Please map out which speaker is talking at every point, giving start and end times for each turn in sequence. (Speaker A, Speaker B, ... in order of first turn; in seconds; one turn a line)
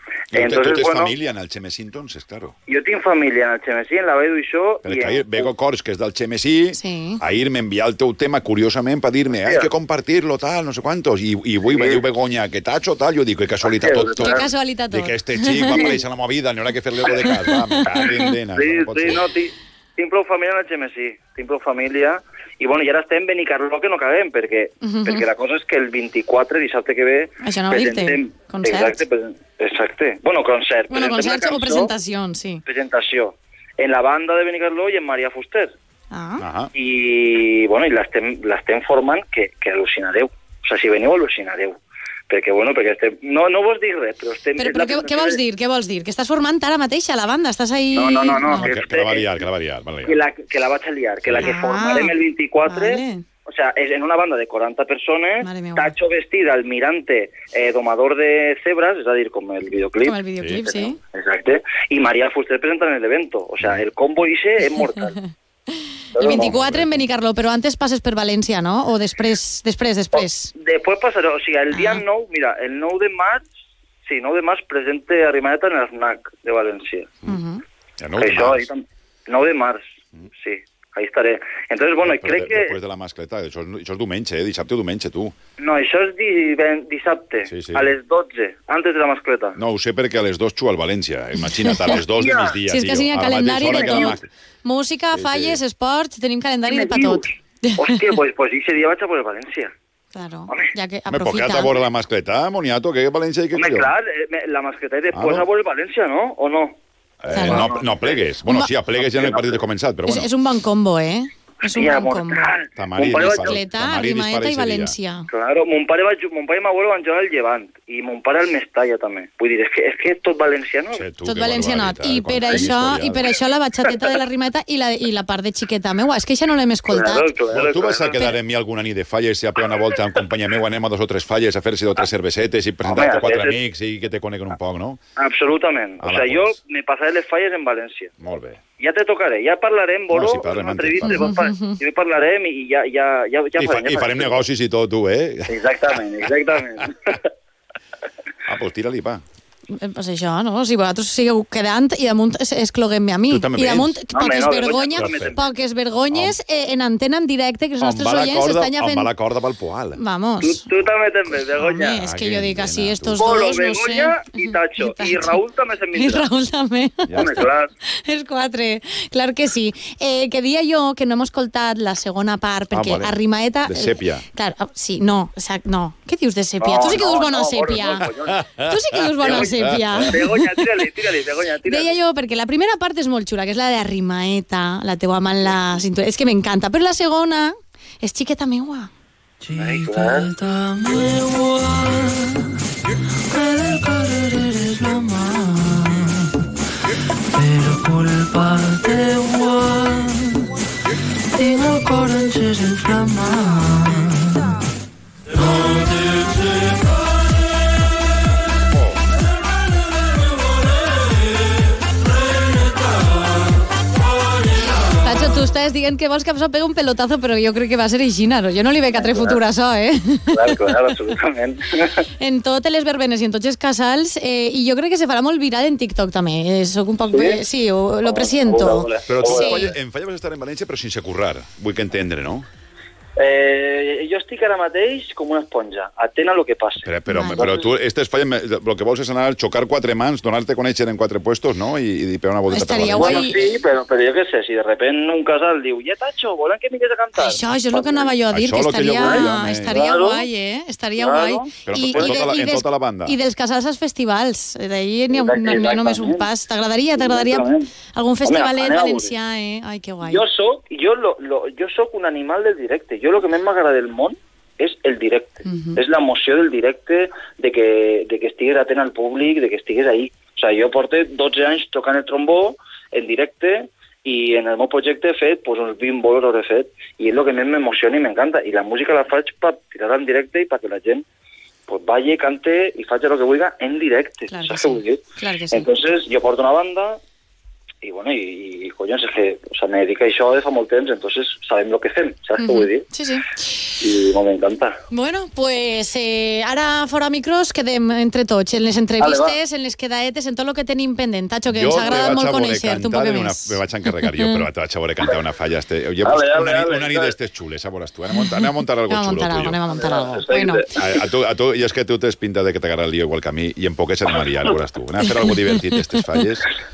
Speaker A: 0.3-1.1
Speaker B: 0.3-2.5
Speaker A: 2.7-5.5
Speaker B: 4.8-19.2
Speaker C: 6.7-7.2
Speaker A: 9.4-9.7
Speaker A: 11.7-12.0
Speaker A: 13.7-14.5
Speaker C: 14.2-16.0
Speaker A: 15.7-16.0
Speaker C: 17.3-18.3
Speaker A: 18.0-31.9
Speaker C: 24.8-25.2
Speaker C: 27.4-29.0
Speaker C: 30.9-32.6
Speaker A: 32.7-35.7
Speaker C: 36.1-36.5
Speaker B: 36.4-36.7
Speaker A: 36.7-41.8
Speaker A: 42.3-45.4
Speaker C: 44.6-48.7
Speaker A: 47.9-49.3
Speaker B: 48.5-50.2
Speaker A: 50.0-65.2
Speaker B: 51.2-51.5
Speaker C: 51.4-52.1
Speaker C: 52.6-53.2
Speaker C: 55.4-55.9
Speaker C: 60.0-61.0
Speaker A: 66.2-66.6
Speaker C: 66.2-70.5
Speaker B: 66.3-67.0
Speaker A: 70.1-73.4
Speaker C: 71.7-72.0
Speaker A: 74.1-77.1
Speaker C: 77.2-77.6
Speaker B: 78.0-78.7
Speaker A: 78.2-79.8
Speaker A: 80.4-82.8
Speaker B: 82.0-85.3
Speaker A: 85.6-89.6
Speaker B: 87.5-87.9
Speaker B: 89.6-94.3
Speaker C: 91.4-92.0
Speaker A: 92.2-92.6
Speaker C: 92.7-98.0
Speaker A: 93.7-94.1
Speaker B: 95.1-95.6
Speaker A: 96.7-99.7
Speaker C: 100.1-101.8
Speaker B: 101.1-103.9
Speaker A: 103.5-106.8
Speaker B: 105.1-105.5
Speaker B: 107.2-110.3
Speaker C: 107.3-107.7
Speaker A: 107.3-108.2
Speaker A: 109.0-109.6
Speaker C: 110.1-112.5
Speaker A: 111.6-113.5
Speaker B: 112.8-115.0
Speaker C: 113.1-115.3
Speaker A: 115.3-121.1
Speaker B: 120.9-123.3
Speaker C: 121.2-127.3
Speaker A: 126.9-128.2
Speaker B: 127.5-135.0
Speaker A: 132.8-133.6
Speaker A: 135.2-138.1
Speaker B: 136.0-136.6
Speaker B: 138.2-138.6
Speaker A: 138.8-144.4
Speaker B: 140.1-141.3
Speaker C: 141.1-141.8
Speaker B: 143.6-145.6
Speaker A: 145.5-147.3
Speaker B: 148.5-149.2
Speaker C: 149.7-159.1
Speaker B: 153.3-154.0
Speaker A: 154.1-155.6
Speaker B: 155.0-155.4
Speaker B: 157.8-160.0
Speaker C: 160.0-160.7
Speaker A: 160.4-162.0
Speaker C: 161.6-165.4
Speaker B: 162.0-163.3
Speaker A: 163.2-166.3
Speaker C: 165.9-180.7
Speaker B: 167.1-167.4
Speaker A: 167.1-167.7
Speaker B: 172.7-174.2
Speaker A: 176.6-178.5
Speaker B: 178.3-179.0
Speaker A: 179.2-182.0
Speaker B: 179.5-180.1
Speaker C: 181.6-188.9
Speaker D: 189.4-192.6
Speaker A: 189.5-190.3
Speaker D: 193.2-196.4
Speaker D: 197.3-200.5
Speaker D: 201.3-204.4
Speaker D: 205.5-206.0
Speaker C: 214.8-220.6
Speaker A: 218.9-219.4
Speaker A: 220.3-222.1
Speaker C: 222.2-229.7
Speaker A: 227.1-227.4
Speaker A: 228.0-229.7
Speaker B: 229.1-232.5
Speaker A: 233.2-237.7
Speaker B: 236.8-243.3
Speaker C: 237.1-237.5
Speaker C: 242.5-243.4
Speaker A: 242.9-248.2
Speaker C: 247.2-260.2
Speaker B: 248.3-249.8
Speaker A: 248.9-250.3
Speaker A: 251.0-252.3
Speaker B: 251.7-253.2
Speaker A: 255.1-256.3
Speaker A: 256.9-257.7
Speaker A: 258.2-259.1
Speaker A: 260.0-281.1
Speaker C: 265.4-265.8
Speaker A: 281.7-287.0
Speaker C: 284.3-285.7
Speaker A: 287.8-292.9
Speaker C: 292.4-293.5
Speaker A: 293.8-294.8
Speaker C: 294.9-304.4
Speaker A: 299.0-299.4
Speaker B: 301.5-309.6
Speaker A: 306.0-307.1
Speaker C: 308.2-310.7
Speaker A: 309.7-311.0
Speaker B: 310.8-316.5
Speaker C: 315.1-316.0